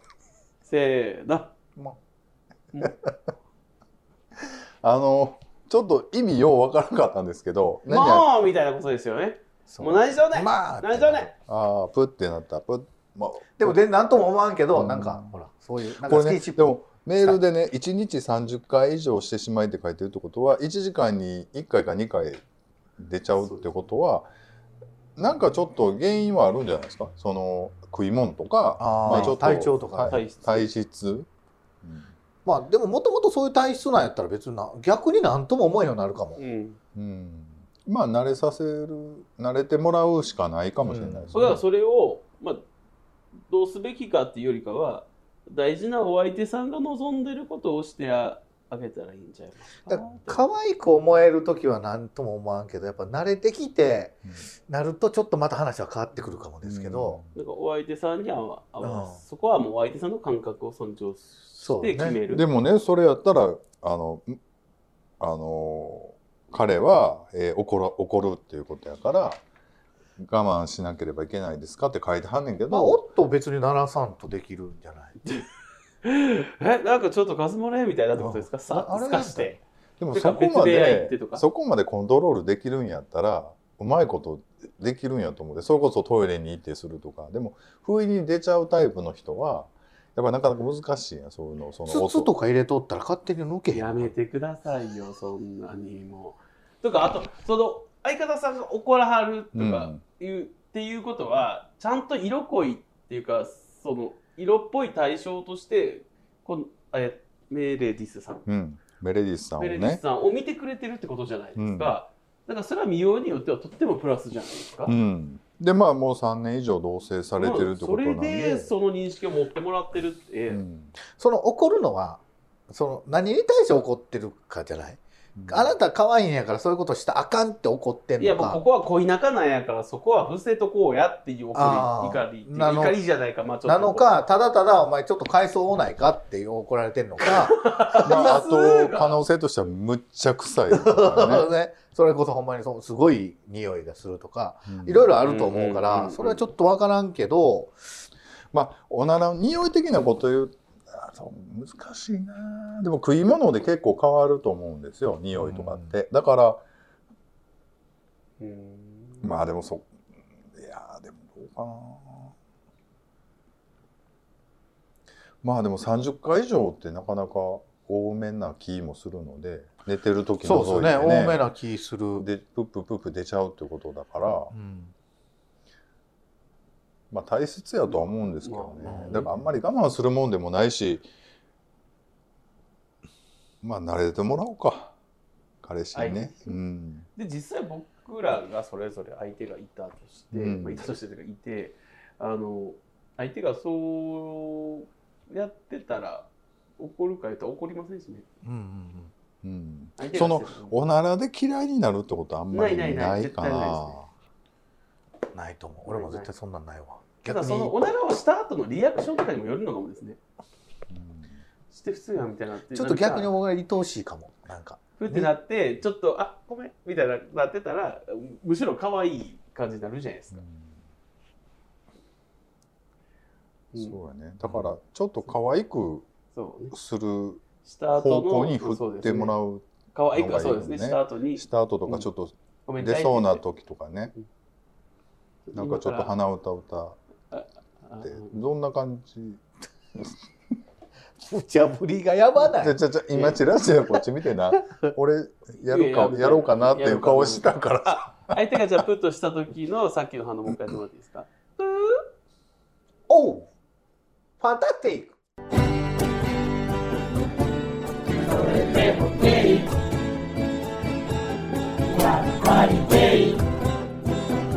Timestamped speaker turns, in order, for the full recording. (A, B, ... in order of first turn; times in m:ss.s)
0:00.6-0:01.5 A
0:04.4-0:08.3 B
0:07.9-0:11.3 A
0:09.7-0:11.3 C
0:11.4-0:13.8 B
0:13.6-0:17.4 C
0:14.7-0:15.3 B
0:16.0-0:22.4 B
0:23.0-0:24.3 B
0:23.4-0:23.6 A
0:25.2-0:31.3 B
0:28.8-0:30.2 C
0:29.1-0:29.4 A
0:30.1-0:30.7 A
0:31.8-0:32.1 B
0:32.4-0:36.4 C
0:36.4-0:36.8 A
0:36.9-0:41.6 B
0:40.8-0:41.6 C
0:41.3-0:42.6 A
0:43.5-0:50.5 A
0:49.9-0:57.2 C
0:56.6-0:57.4 B
0:57.4-1:02.4 A
0:58.8-0:59.2 C
1:01.6-1:02.2 C
1:02.3-1:04.4 B
1:05.2-1:09.4 B
1:10.2-1:13.0 B
1:12.7-1:15.2 C
1:16.0-1:19.6 A
1:18.2-1:19.6 C
1:20.0-1:32.3 B
1:20.1-1:21.4 A
1:31.9-1:34.1 C
1:33.7-1:48.5 A
1:39.6-1:40.0 B
1:48.5-1:50.0 B
1:49.6-1:54.9 A
1:51.6-1:51.9 B
1:54.9-1:58.7 B
1:57.4-2:00.6 A
2:00.5-2:00.9 B
2:01.0-2:08.6 C
2:05.4-2:05.7 B
2:08.2-2:14.1 A
2:11.5-2:13.0 C
2:13.6-2:18.4 C
2:17.2-2:19.2 A
2:18.0-2:21.5 B
2:20.7-2:27.8 C
2:24.7-2:25.2 B
2:25.2-2:26.4 A
2:28.5-2:36.6 B
2:35.4-2:35.9 C
2:38.4-2:39.3 A
2:39.2-2:39.9 B
2:40.5-2:42.3 B
2:45.4-2:51.4 B
2:50.4-2:52.3 C
2:52.2-2:54.5 B
2:54.5-2:54.9 C
2:57.1-3:01.1 B
2:57.9-2:59.3 A
2:58.8-2:59.3 C
3:03.6-3:04.9 B
3:05.6-3:07.1 B
3:05.9-3:06.6 A
3:07.2-3:18.2 A
3:10.3-3:10.8 B
3:18.4-3:19.1 C
3:19.4-3:24.1 B
3:20.0-3:20.8 A
3:22.5-3:24.0 A
3:25.3-3:27.7 C
3:25.9-3:26.3 A
3:27.3-3:30.2 A
3:30.9-3:31.4 B
3:31.7-3:33.3 A
3:32.7-3:35.3 C
3:35.0-3:40.4 A
3:40.4-3:40.8 B
3:43.8-3:46.1 B
3:46.3-3:46.7 A
3:46.7-3:54.1 B
3:47.6-3:49.3 A
3:49.9-3:52.1 A
3:52.7-3:53.4 A
3:55.5-3:56.1 A
3:55.6-3:57.0 B
3:57.3-3:58.4 A
3:58.0-3:59.4 B
4:01.2-4:03.3 C
4:02.5-4:08.4 B
4:03.9-4:04.9 C
4:05.7-4:12.1 A
4:13.1-4:13.5 C
4:14.4-4:15.2 C